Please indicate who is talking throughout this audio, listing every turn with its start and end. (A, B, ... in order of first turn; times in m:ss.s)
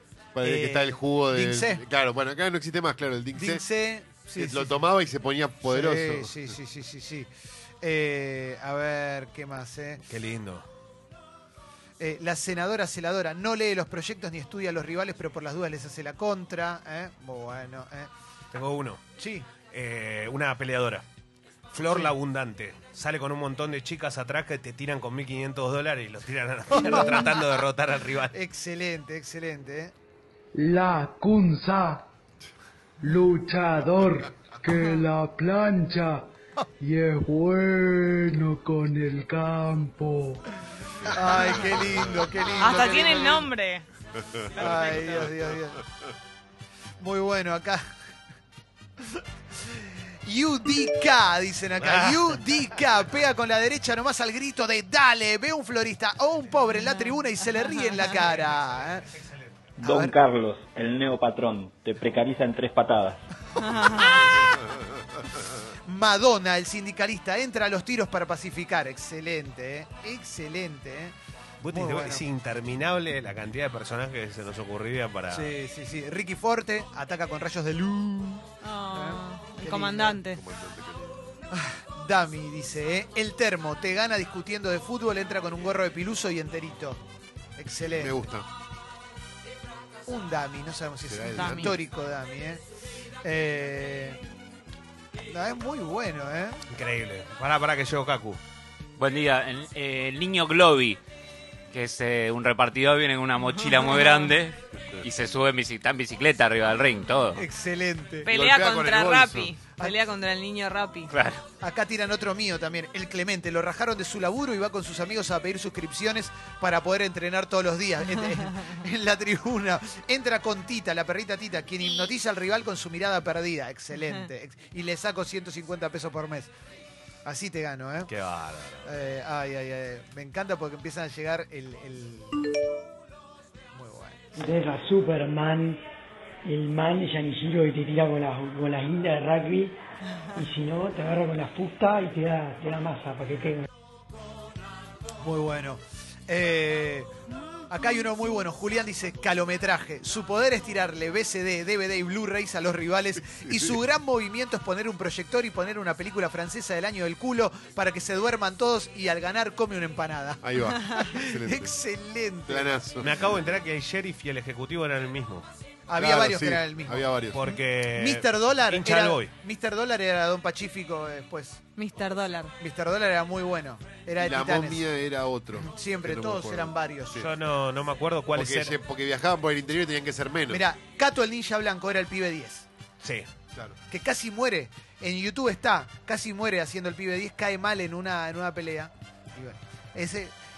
0:00.3-0:03.6 A
0:00.4-0:01.8 B
0:03.3-0:04.8 B
0:04.4-0:06.6 A
0:05.6-0:07.3 B
0:07.8-0:10.0 B
0:10.1-0:10.6 C
0:12.0-0:18.1 B
0:18.5-0:19.0 C
0:19.2-0:19.5 B
0:19.7-0:21.0 C
0:21.7-0:28.3 C
0:26.7-0:27.3 B
0:28.3-0:29.9 B
0:30.5-0:32.0 D
0:33.0-0:36.2 D
0:36.8-0:40.4 D
0:41.0-0:43.5 B
0:42.6-0:43.8 E
0:44.5-0:45.8 B
0:44.6-0:45.3 E
0:44.6-0:45.1 C
0:47.0-0:47.9 B
0:49.2-0:59.1 B
0:51.8-0:52.4 C
0:58.1-0:59.4 C
0:59.8-1:03.2 F
0:59.8-1:00.1 B
1:03.6-1:04.3 E
1:05.8-1:11.1 B
1:11.6-1:15.5 C
1:11.7-1:12.2 B
1:15.3-1:20.2 B
1:18.6-1:20.4 E
1:20.3-1:21.2 A
1:21.5-1:27.0 B
1:27.6-1:28.2 B
1:27.9-1:28.4 A
1:30.0-1:32.6 B
1:31.1-1:31.8 A
1:31.3-1:31.7 E
1:33.2-1:34.2 B
1:35.3-1:36.6 B
1:36.7-1:38.4 C
1:39.0-1:41.0 G
1:41.7-1:47.4 G
1:43.4-1:44.3 E
1:47.3-1:48.3 B
1:48.2-1:51.1 E
1:48.3-1:49.5 A
1:51.1-1:51.4 G
1:51.6-2:06.5 B
2:07.2-2:08.1 B
2:08.1-2:08.9 C
2:08.8-2:12.4 B
2:13.7-2:14.2 B
2:14.4-2:15.8 H
2:16.4-2:19.8 H
2:20.3-2:23.6 H
2:25.2-2:27.1 B
2:27.7-2:42.7 B
2:40.4-2:41.7 A
2:42.5-2:43.6 A
2:43.0-2:45.4 C
2:45.9-2:51.6 B
2:45.9-2:47.4 A
2:47.3-2:49.3 C
2:51.8-2:52.5 E
2:52.6-2:54.8 B
2:54.2-2:57.3 A
2:55.6-2:57.2 B
2:57.2-2:58.8 C
2:58.3-3:00.6 A
3:00.5-3:02.7 B
3:03.9-3:10.3 B